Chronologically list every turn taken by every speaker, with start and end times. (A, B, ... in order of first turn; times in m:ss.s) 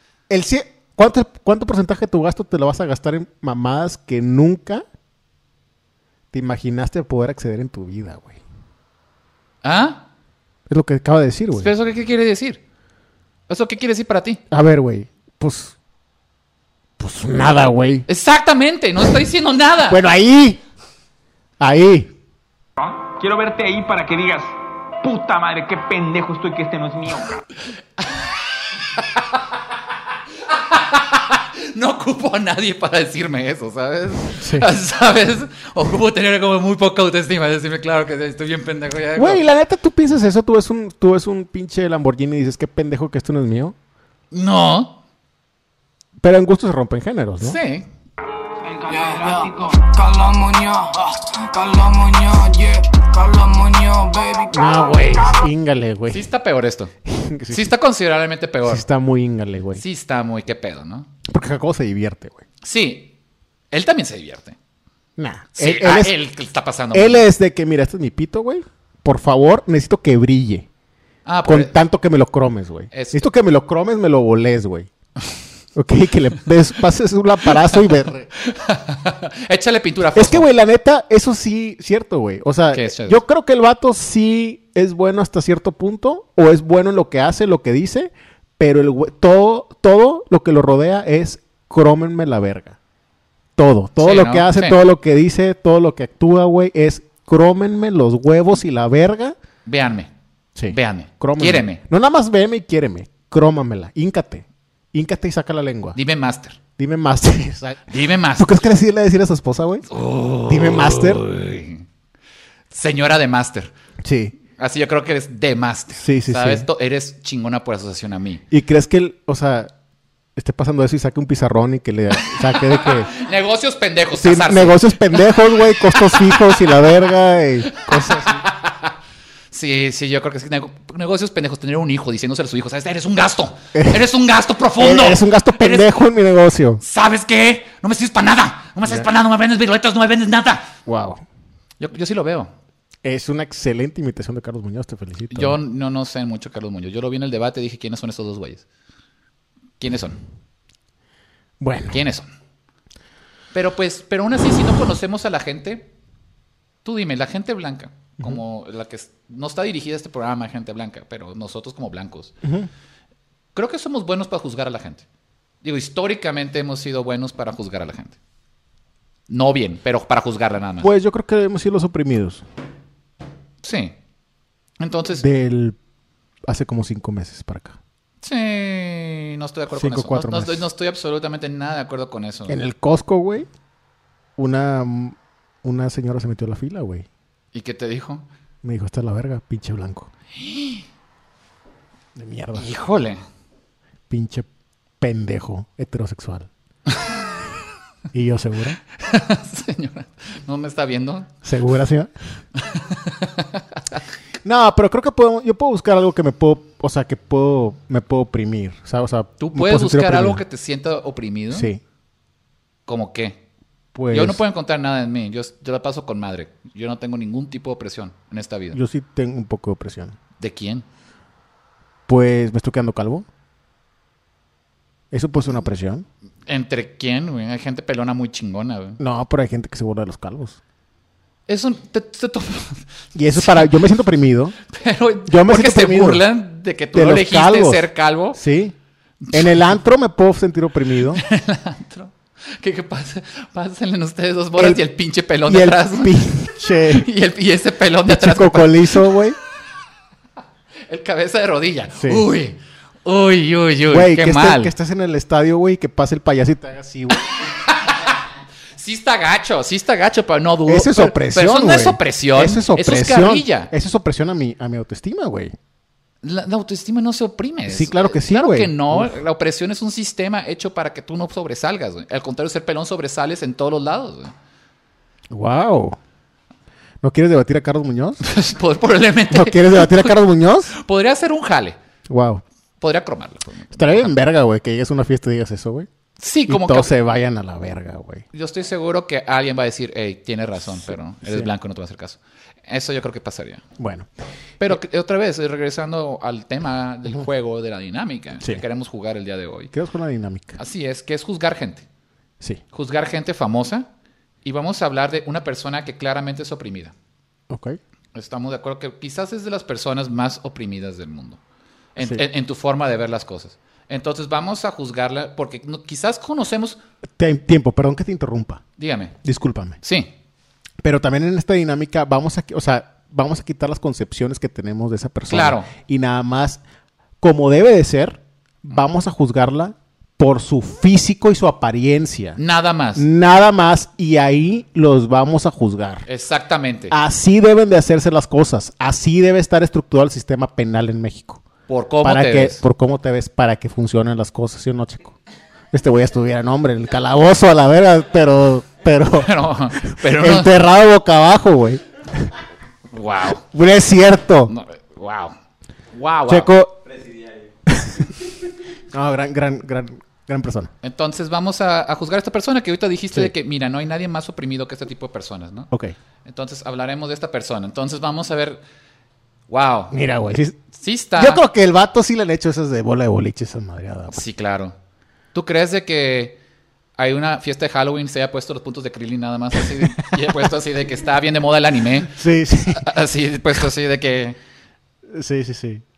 0:00.3-0:04.8 A
0:06.3-0:08.4 A
0:09.6-0:10.0 B
0:10.7-0:11.7 A
0:11.5-0:12.6 B
0:13.5-0:14.4 B
0:14.5-0:15.8 A
0:17.0-0:18.1 A
0:18.1-0:20.0 B
0:19.9-0:20.6 A
0:21.6-0:22.1 A
0:22.8-0:27.4 C
0:30.5-0:39.4 B
0:34.4-0:34.7 A
0:39.2-0:43.7 A
0:44.3-0:45.0 B
0:46.2-0:47.6 A
0:47.4-0:47.9 B
0:48.7-0:55.4 D
0:54.5-0:56.2 A
0:56.1-0:56.9 B
0:57.0-0:57.7 A
0:57.5-0:58.8 B
0:58.6-0:59.8 A
0:59.8-1:01.1 B
1:01.3-1:02.4 A
1:02.6-1:03.1 B
1:03.7-1:04.6 B
1:05.2-1:06.2 A
1:05.6-1:07.2 B
1:06.9-1:10.7 A
1:11.2-1:11.8 B
1:11.4-1:14.9 A
1:12.9-1:13.2 B
1:15.7-1:18.3 A
1:18.3-1:20.5 B
1:20.1-1:32.8 A
1:22.7-1:23.2 B
1:33.6-1:39.4 A
1:34.0-1:34.8 B
1:39.6-1:40.1 B
1:40.5-1:46.0 A
1:40.7-1:41.8 B
1:45.9-1:46.6 B
1:46.8-1:49.8 A
1:47.9-1:48.6 B
1:49.9-1:51.8 B
1:50.5-1:51.2 A
1:52.7-1:53.7 B
1:54.0-1:54.3 A
1:54.6-1:58.4 B
1:56.0-1:56.6 A
1:58.5-1:59.7 A
2:00.4-2:03.1 A
2:02.2-2:06.6 B
2:04.1-2:08.4 A
2:07.7-2:08.9 B
2:09.5-2:15.9 B
2:13.7-2:14.1 A
2:14.8-2:16.8 A
2:16.8-2:20.7 B
2:20.8-2:21.2 A
2:21.8-2:22.5 B
2:23.0-2:25.6 A
2:25.3-2:28.6 B
2:29.8-2:30.2 B
2:31.6-2:32.0 A
2:31.9-2:32.3 B
2:33.5-2:35.9 B
2:36.8-2:42.3 B
2:42.4-2:42.7 A
2:43.5-2:45.0 B
2:45.6-2:48.2 B
2:49.3-2:50.9 B
2:50.8-2:52.4 A
2:53.6-2:54.0 B
2:54.8-2:55.2 B
2:55.2-2:55.8 A
2:56.5-2:57.8 A
2:58.2-3:02.6 B
2:59.7-3:00.6 A
3:02.5-3:03.5 A
3:04.4-3:07.0 A
3:07.5-3:08.2 B
3:08.6-3:10.1 A
3:10.3-3:10.8 B
3:12.2-3:12.7 A
3:12.5-3:13.2 B
3:14.1-3:14.5 A
3:15.0-3:16.5 A
3:18.1-3:18.8 A
3:19.0-3:21.3 B
3:21.4-3:22.1 A
3:22.6-3:24.0 B
3:24.4-3:30.4 A
3:29.4-3:31.7 B
3:31.5-3:31.8 A
3:32.8-3:33.4 B
3:33.9-3:34.4 A
3:34.1-3:38.8 B
3:38.7-3:40.2 A
3:40.4-3:40.8 B
3:42.1-3:43.3 A
3:45.1-3:46.0 A
3:46.5-3:49.0 B
3:49.0-3:50.6 A
3:51.5-3:53.7 B
3:53.1-3:54.6 A
3:54.7-3:58.4 B
3:55.2-3:56.2 A
3:56.9-3:58.7 A
3:59.3-4:01.2 A
4:01.1-4:06.3 B
4:04.6-4:04.8 A
4:05.5-4:07.1 A
4:06.8-4:09.1 B
4:08.1-4:09.4 A
4:10.9-4:14.7 B
4:12.0-4:12.2 A
4:13.9-4:17.2 A
4:17.4-4:18.2 B
4:18.8-4:23.7 B
4:20.7-4:25.5 A
4:26.2-4:34.3 B
4:27.7-4:29.2 A
4:35.3-4:36.0 A
4:37.0-4:38.2 A
4:38.2-4:40.2 B
4:39.3-4:40.7 A
4:40.7-4:41.8 B
4:42.1-4:42.4 A
4:42.8-4:44.1 B
4:43.7-4:45.9 A
4:46.2-4:46.9 B
4:46.5-4:48.2 A
4:48.3-4:53.6 B
4:51.2-4:51.5 A
4:53.8-4:54.1 A
4:54.6-4:59.7 B
4:59.7-5:00.6 A
5:00.6-5:01.8 B
5:02.7-5:03.9 B
5:04.4-5:06.9 B
5:07.5-5:07.8 A
5:08.1-5:11.4 B
5:11.9-5:16.8 B
5:17.2-5:18.6 A
5:18.8-5:19.1 B
5:19.2-5:19.8 A
5:19.8-5:20.1 B
5:20.8-5:26.6 A
5:25.3-5:25.7 B
5:27.2-5:32.4 A
5:32.4-5:33.0 B
5:33.0-5:36.0 A
5:36.0-5:36.9 B
5:36.9-5:41.4 A
5:41.7-5:42.6 B
5:42.0-5:45.2 A
5:45.7-5:49.3 A
5:49.2-5:50.5 B
5:49.8-5:52.3 A
5:52.9-5:53.4 B
5:53.5-5:54.5 A
5:54.5-5:55.3 B
5:55.9-5:56.5 B
5:56.3-5:56.8 A
5:57.7-5:58.1 A
5:58.9-6:00.7 A
6:00.8-6:05.7 B
6:06.2-6:08.6 B
6:09.5-6:09.9 B
6:09.9-6:10.6 A
6:10.8-6:11.4 B
6:11.2-6:14.2 A
6:14.1-6:14.7 B
6:15.3-6:16.4 B
6:17.0-6:22.2 B
6:22.1-6:22.9 A
6:22.7-6:24.4 B
6:25.1-6:25.8 A